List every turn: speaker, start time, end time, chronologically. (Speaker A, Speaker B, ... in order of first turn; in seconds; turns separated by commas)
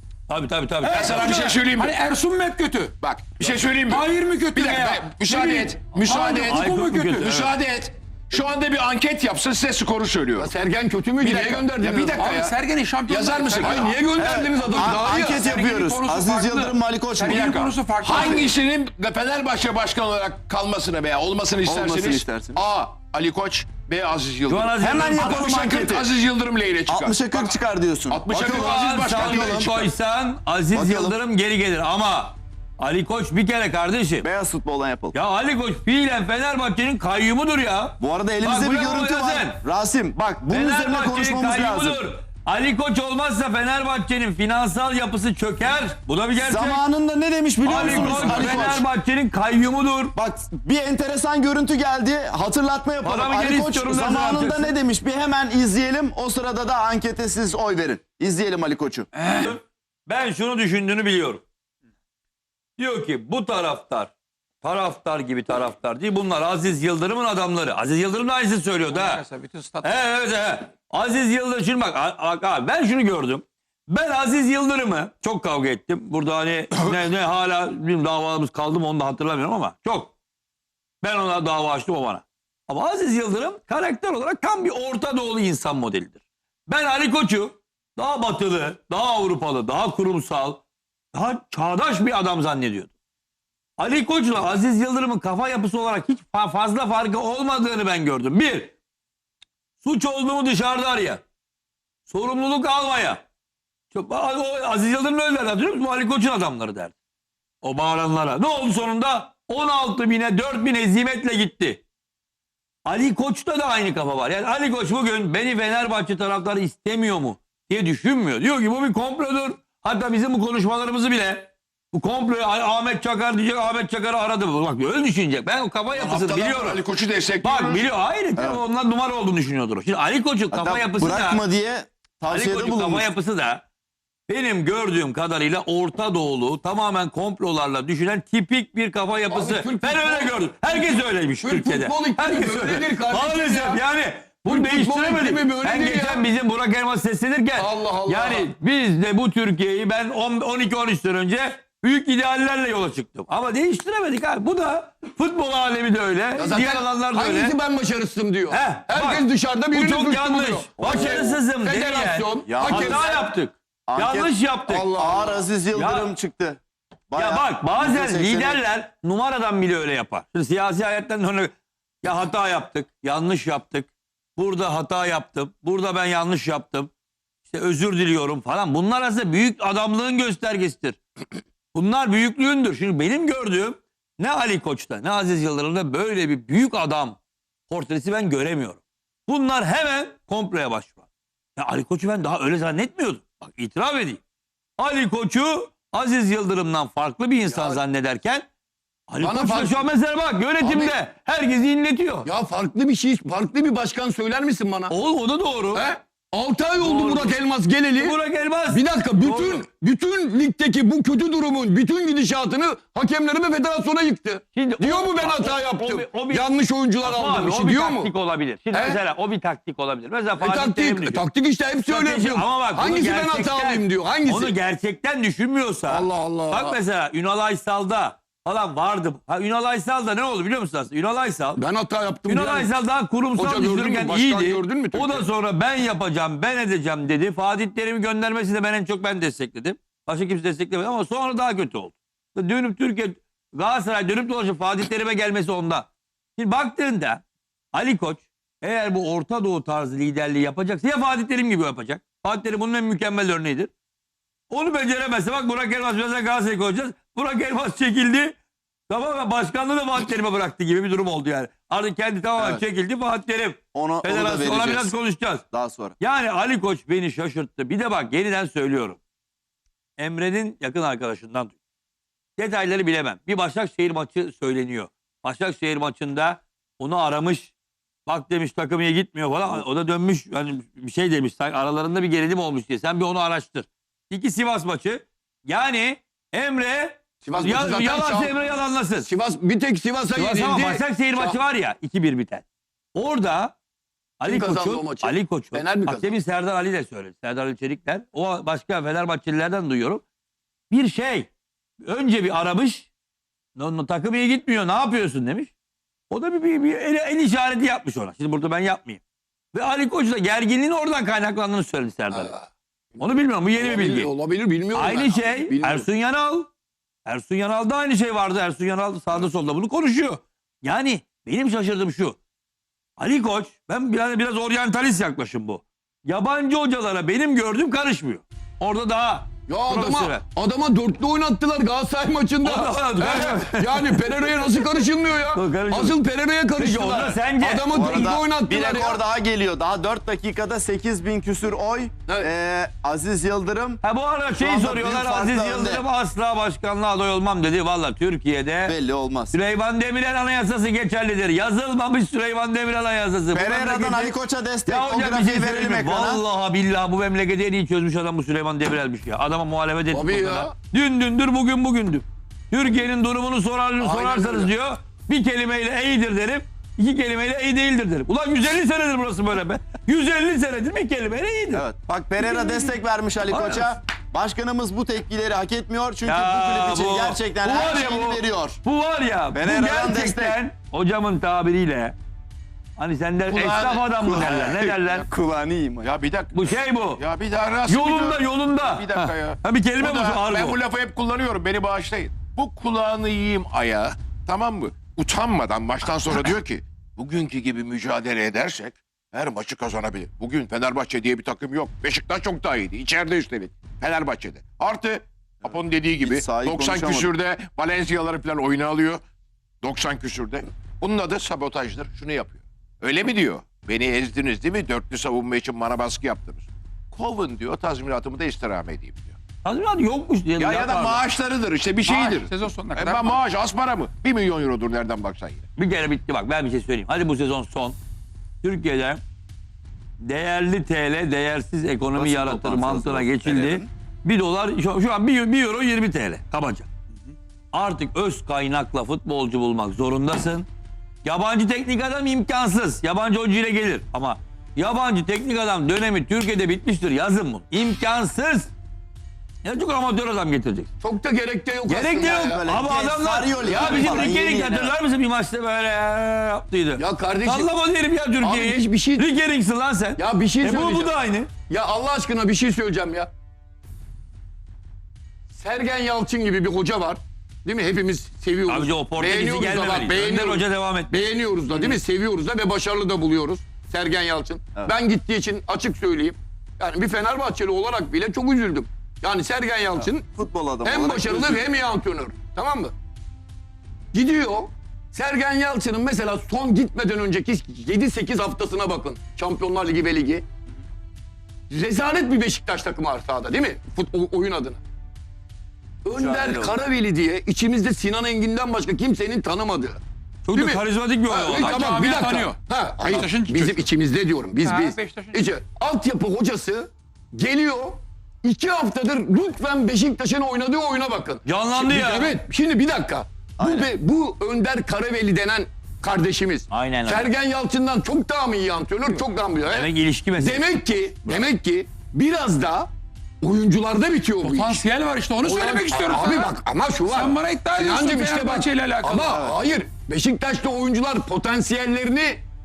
Speaker A: 0.3-1.5, Speaker B: 0.8-2.9, Speaker C: 0.9-1.9, Speaker C: 3.0-10.5, Speaker B: 3.9-7.3, Speaker A: 6.3-7.5, Speaker D: 10.3-12.5, Speaker C: 11.2-12.5, Speaker B: 12.2-13.9, Speaker C: 13.1-13.9, Speaker D: 13.6-15.4, Speaker E: 14.2-17.5, Speaker B: 14.8-18.5, Speaker C: 17.2-27.5, Speaker E: 21.6-22.6, Speaker A: 24.5-25.5, Speaker E: 24.8-26.1, Speaker E: 26.9-29.9, Speaker C: 28.1-29.9, Speaker A: 28.3-34.3, Speaker E: 30.7-31.2, Speaker E: 34.2-35.1, Speaker A: 35.1-39.6, Speaker E: 38.0-42.0, Speaker A: 40.5-46.8, Speaker E: 46.4-48.8, Speaker A: 47.6-50.1, Speaker C: 48.1-48.5, Speaker E: 50.1-59.1, Speaker A: 53.0-54.7, Speaker B: 59.1-59.6, Speaker A: 59.3-61.4, Speaker A: 62.8-69.2, Speaker B: 68.9-70.0, Speaker A: 69.8-80.1, Speaker A: 81.0-90.6, Speaker A: 91.1-92.9, Speaker A: 93.8-98.7, Speaker A: 99.8-101.2, Speaker A: 102.1-103.2, Speaker A: 103.9-106.9, Speaker A: 107.6-111.8, Speaker A: 112.8-126.8, Speaker C: 125.9-127.9, Speaker A: 127.4-131.4, Speaker E: 130.5-133.1, Speaker A: 132.3-133.6, Speaker A: 134.3-157.6, Speaker D: 139.3-143.8, Speaker D: 144.5-146.2, Speaker D: 147.6-148.5, Speaker D: 156.3-163.3, Speaker A: 158.5-164.9, Speaker E: 160.8-161.4, Speaker E: 162.4-163.1, Speaker E: 163.9-166.6, Speaker D: 164.7-165.4, Speaker A: 165.7-166.1, Speaker E: 167.1-168.6, Speaker A: 167.2-176.9, Speaker A: 177.4-181.0, Speaker A: 181.7-187.2, Speaker A: 187.7-191.0, Speaker A: 191.6-194.2, Speaker A: 194.8-198.4, Speaker D: 197.5-197.8, Speaker A: 199.1-202.3, Speaker D: 199.2-199.9, Speaker D: 200.6-200.9, Speaker D: 202.2-204.9, Speaker A: 204.9-205.8, Speaker D: 205.7-208.2, Speaker A: 206.8-207.3, Speaker A: 208.0-209.7, Speaker D: 208.7-218.1, Speaker A: 214.5-216.4, Speaker A: 217.0-221.2, Speaker D: 218.7-219.0, Speaker D: 220.4-224.5, Speaker A: 221.9-231.6, Speaker D: 225.9-226.8, Speaker D: 231.6-232.7, Speaker A: 232.3-247.2, Speaker D: 233.3-235.2, Speaker A: 247.7-253.7, Speaker A: 254.5-258.4, Speaker A: 258.9-265.4, Speaker E: 262.4-262.6, Speaker E: 263.7-264.9, Speaker E: 265.5-265.9, Speaker A: 266.0-269.0, Speaker A: 270.0-271.5, Speaker A: 272.4-277.5, Speaker A: 278.1-289.1, Speaker D: 287.2-288.4, Speaker D: 289.0-291.4, Speaker A: 290.1-293.5, Speaker A: 294.2-300.0, Speaker D: 294.2-296.1, Speaker A: 300.7-301.3, Speaker A: 301.8-302.9, Speaker A: 303.6-305.5, Speaker A: 306.1-309.0, Speaker A: 309.5-312.3, Speaker D: 312.1-312.4, Speaker A: 313.0-314.1, Speaker D: 313.6-315.9, Speaker A: 314.7-316.5, Speaker A: 317.1-322.2, Speaker A: 323.0-330.2, Speaker D: 329.5-339.0, Speaker A: 332.4-334.7, Speaker A: 335.3-336.0, Speaker A: 336.6-337.7, Speaker E: 337.7-345.8, Speaker A: 343.8-348.7, Speaker E: 348.6-349.4, Speaker A: 349.3-354.1, Speaker E: 353.3-356.2, Speaker A: 354.7-371.6, Speaker D: 359.9-360.5, Speaker D: 363.8-364.5, Speaker E: 371.5-378.6, Speaker A: 372.4-372.7, Speaker A: 373.3-373.7, Speaker A: 376.0-381.9, Speaker E: 379.3-380.4, Speaker A: 382.8-385.1, Speaker C: 383.3-384.3, Speaker E: 384.0-385.9, Speaker C: 385.8-409.0, Speaker A: 386.3-387.0, Speaker A: 387.7-390.6, Speaker E: 406.0-407.1, Speaker C: 409.6-419.1, Speaker A: 419.4-421.0, Speaker C: 420.4-425.5, Speaker B: 421.8-423.2, Speaker A: 425.6-427.8, Speaker A: 428.4-429.0, Speaker A: 430.0-436.7, Speaker E: 431.9-433.7, Speaker A: 437.5-440.5, Speaker A: 441.0-448.5, Speaker A: 449.4-450.7, Speaker D: 450.8-452.4, Speaker A: 451.7-461.3, Speaker E: 451.9-454.7, Speaker D: 453.4-454.2, Speaker D: 456.8-457.5, Speaker D: 458.2-459.1, Speaker D: 460.0-460.9, Speaker D: 461.5-463.1, Speaker D: 465.3-480.1, Speaker A: 468.5-471.0, Speaker E: 479.8-481.4, Speaker D: 480.6-482.7, Speaker D: 483.9-490.2, Speaker D: 491.5-494.6, Speaker D: 495.8-499.8, Speaker E: 495.9-496.5, Speaker A: 500.2-501.7, Speaker D: 500.3-522.7, Speaker B: 501.4-503.6, Speaker B: 504.4-505.3, Speaker A: 511.2-512.2, Speaker E: 513.4-513.7, Speaker A: 516.5-517.1, Speaker A: 519.5-520.5, Speaker D: 523.2-524.6, Speaker B: 524.2-526.3, Speaker D: 525.2-532.2, Speaker B: 526.9-529.2